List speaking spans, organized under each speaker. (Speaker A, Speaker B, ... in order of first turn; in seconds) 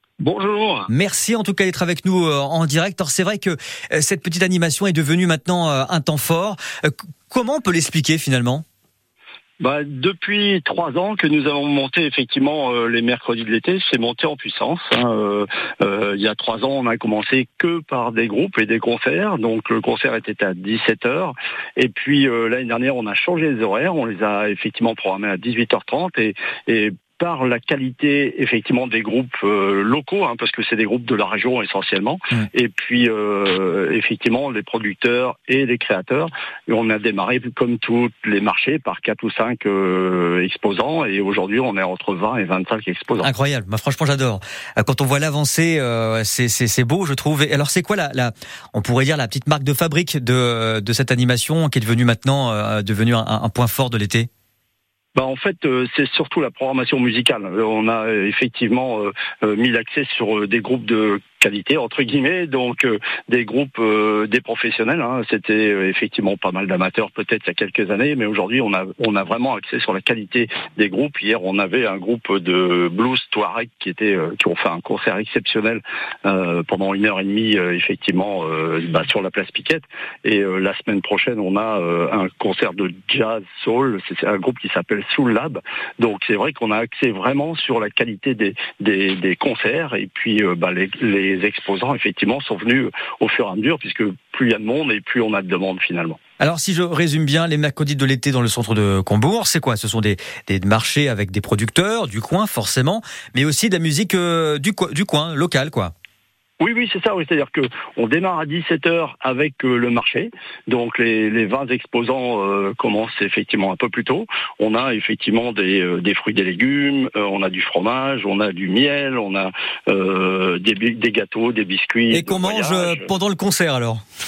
Speaker A: 0.2-0.9, 9.6-43.3, 55.1-96.2, 106.6-123.1
Speaker B: 0.9-8.6, 43.2-54.3, 96.4-105.9, 122.1-124.0